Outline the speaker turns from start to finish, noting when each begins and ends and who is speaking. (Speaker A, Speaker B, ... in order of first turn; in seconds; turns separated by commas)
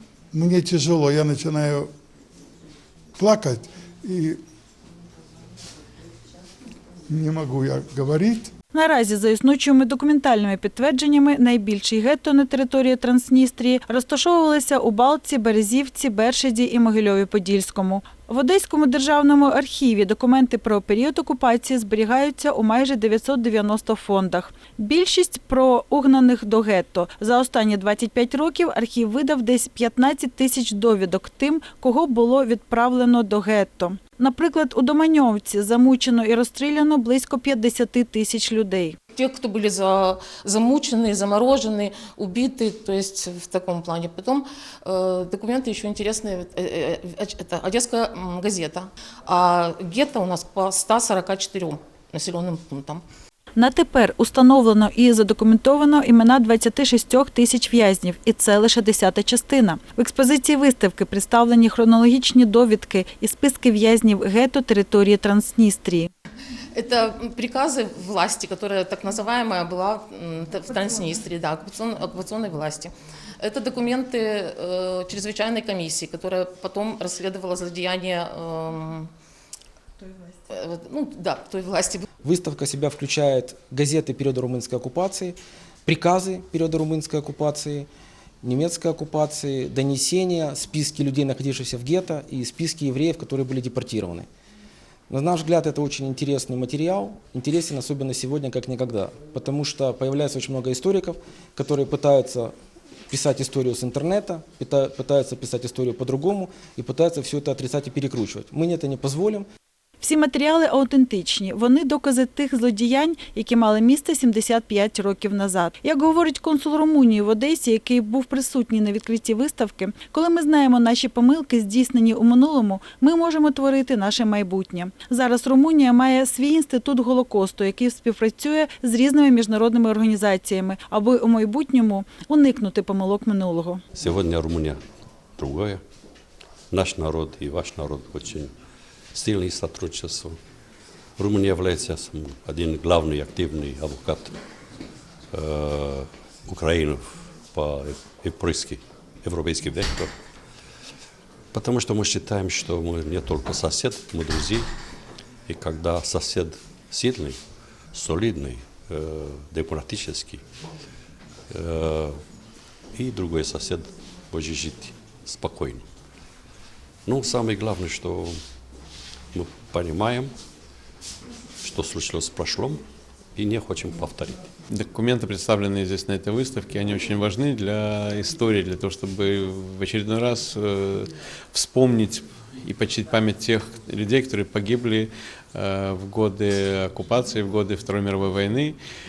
Speaker A: 0.3-1.9, Speaker A: 3.2-4.4, Speaker A: 7.1-8.5, Speaker B: 8.7-39.0, Speaker C: 39.1-53.0, Speaker B: 53.6-66.1, Speaker C: 66.8-79.1, Speaker C: 80.5-82.0, Speaker D: 82.2-87.9, Speaker D: 88.4-94.3, Speaker D: 95.1-102.5, Speaker D: 103.1-109.5, Speaker B: 110.0-133.8, Speaker E: 134.0-134.8, Speaker E: 135.4-135.8, Speaker E: 136.7-138.5, Speaker E: 139.1-140.4, Speaker E: 141.2-144.3, Speaker E: 145.3-150.1, Speaker E: 151.5-154.7, Speaker E: 155.5-157.4, Speaker E: 157.9-160.4, Speaker E: 161.5-162.2, Speaker E: 162.9-165.8, Speaker E: 167.1-168.4, Speaker E: 169.3-170.3, Speaker E: 171.6-172.8, Speaker E: 173.3-174.4, Speaker F: 174.7-188.8